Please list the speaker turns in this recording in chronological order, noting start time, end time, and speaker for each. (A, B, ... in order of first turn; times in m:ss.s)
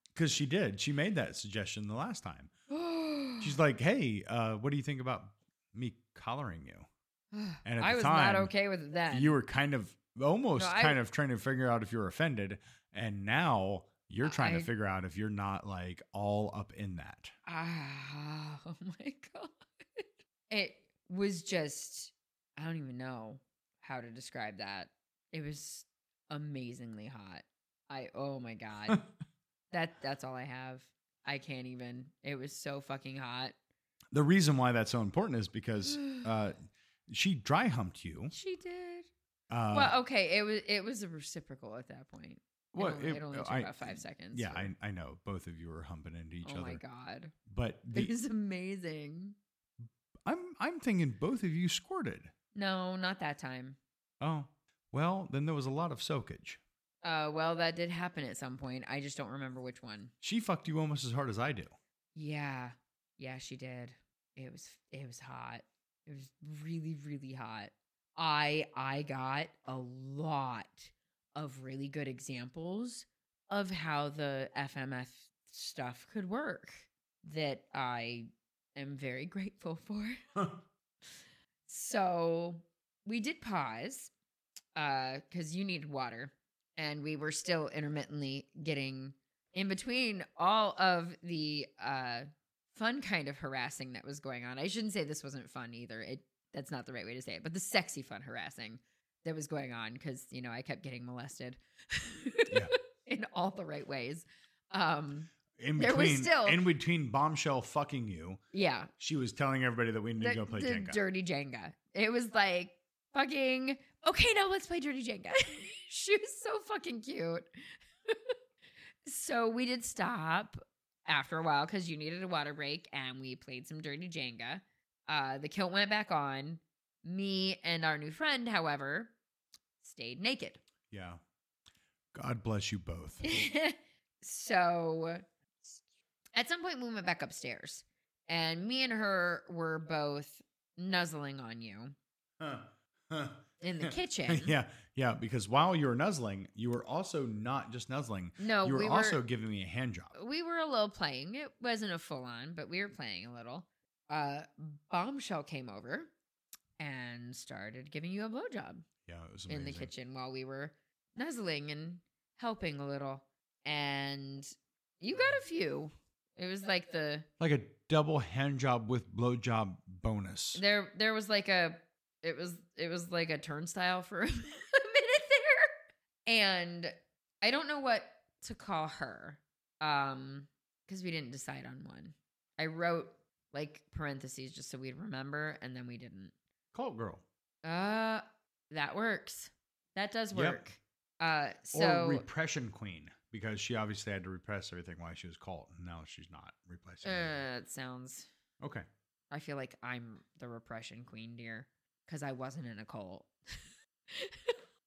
0:00.2-0:02.5 A
0:02.7-0:03.6 B
0:03.4-0:06.9 A
0:07.3-0:09.4 B
0:07.6-0:08.5 A
0:09.1-0:17.3 A
0:10.6-0:11.0 B
0:14.2-0:14.7 B
0:17.5-0:29.0 B
0:29.7-0:33.5 B
0:34.1-0:36.6 A
0:35.9-0:36.3 B
0:37.1-0:38.3 A
0:38.3-0:39.1 B
0:39.5-0:40.0 A
0:39.7-0:44.7 B
0:42.7-0:46.8 A
0:46.4-0:47.3 B
0:47.5-0:48.1 A
0:47.9-0:49.4 B
0:50.3-0:52.3 A
0:52.6-0:53.8 B
0:54.2-0:56.6 A
0:57.0-1:00.1 B
1:00.2-1:01.7 A
1:02.2-1:20.2 B
1:21.7-1:24.1 B
1:24.8-1:46.7 B
1:45.6-1:48.4 A
1:48.5-1:48.9 B
1:49.0-1:51.0 A
1:50.2-1:57.5 B
1:58.1-1:58.3 B
1:59.0-2:09.1 B
2:09.8-2:10.6 B
2:10.9-2:11.2 A
2:12.1-2:13.5 A
2:13.2-2:15.8 B
2:16.4-2:21.9 B
2:22.4-2:30.1 A
2:23.6-2:24.5 B
2:28.4-2:29.2 B
2:30.1-2:36.1 B
2:36.8-2:38.9 B
2:39.1-2:39.9 A
2:39.5-2:47.3 B
2:47.4-2:50.6 A
2:50.6-2:55.7 B
2:56.3-3:06.3 B
3:06.7-3:07.2 A
3:07.6-3:12.3 B
3:10.3-3:10.7 A
3:11.7-3:17.4 A
3:17.0-3:18.3 B
3:18.6-3:18.8 A
3:19.3-3:23.3 B
3:24.1-3:24.6 B